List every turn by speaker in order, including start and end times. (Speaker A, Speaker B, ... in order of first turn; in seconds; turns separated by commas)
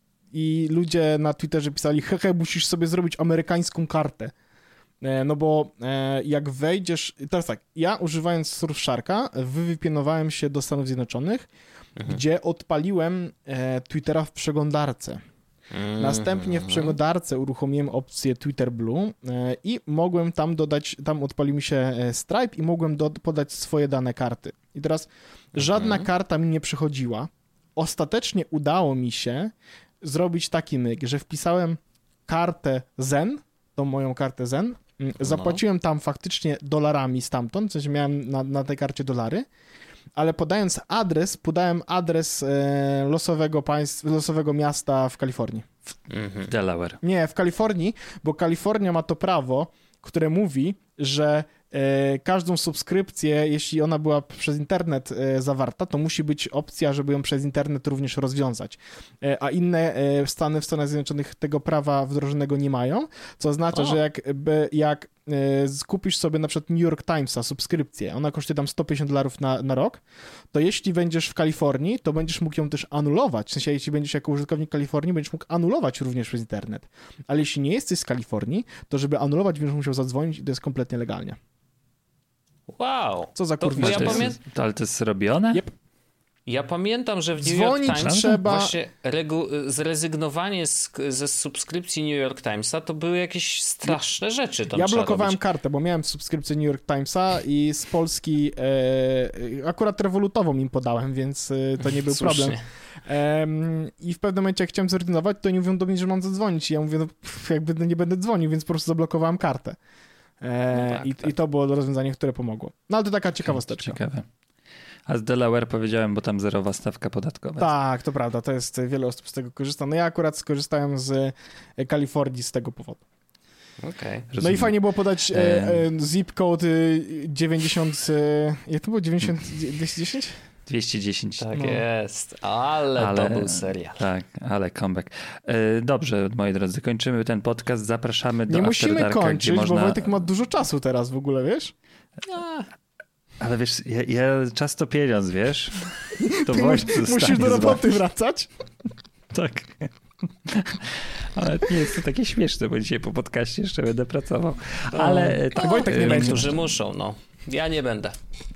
Speaker A: 0.3-4.3, Speaker A: 5.0-11.5, Speaker A: 12.0-15.2, Speaker B: 15.7-16.9, Speaker A: 16.0-39.5, Speaker B: 25.6-26.1, Speaker B: 35.2-35.6, Speaker A: 40.1-45.8, Speaker B: 46.1-46.5, Speaker C: 46.5-47.0, Speaker A: 47.0-70.0, Speaker B: 63.7-64.0, Speaker A: 70.5-81.4, Speaker B: 82.7-84.4, Speaker A: 83.3-84.3, Speaker C: 83.8-85.6, Speaker B: 86.5-95.4, Speaker A: 87.4-88.7, Speaker C: 87.8-88.4, Speaker A: 94.7-109.8, Speaker B: 101.8-102.6, Speaker A: 110.4-114.0, Speaker B: 110.7-111.3, Speaker C: 113.5-114.2, Speaker C: 115.1-117.7, Speaker A: 117.6-123.0, Speaker B: 123.8-124.3, Speaker C: 124.3-124.7, Speaker A: 124.4-130.4, Speaker C: 125.3-125.8, Speaker C: 130.7-131.6, Speaker B: 131.4-134.0, Speaker A: 131.6-131.8, Speaker C: 132.9-140.1, Speaker A: 138.5-141.7, Speaker B: 142.2-142.7, Speaker C: 143.4-147.9, Speaker A: 146.2-148.5, Speaker C: 149.3-149.9, Speaker C: 150.4-156.5, Speaker B: 154.9-158.2, Speaker A: 155.0-156.4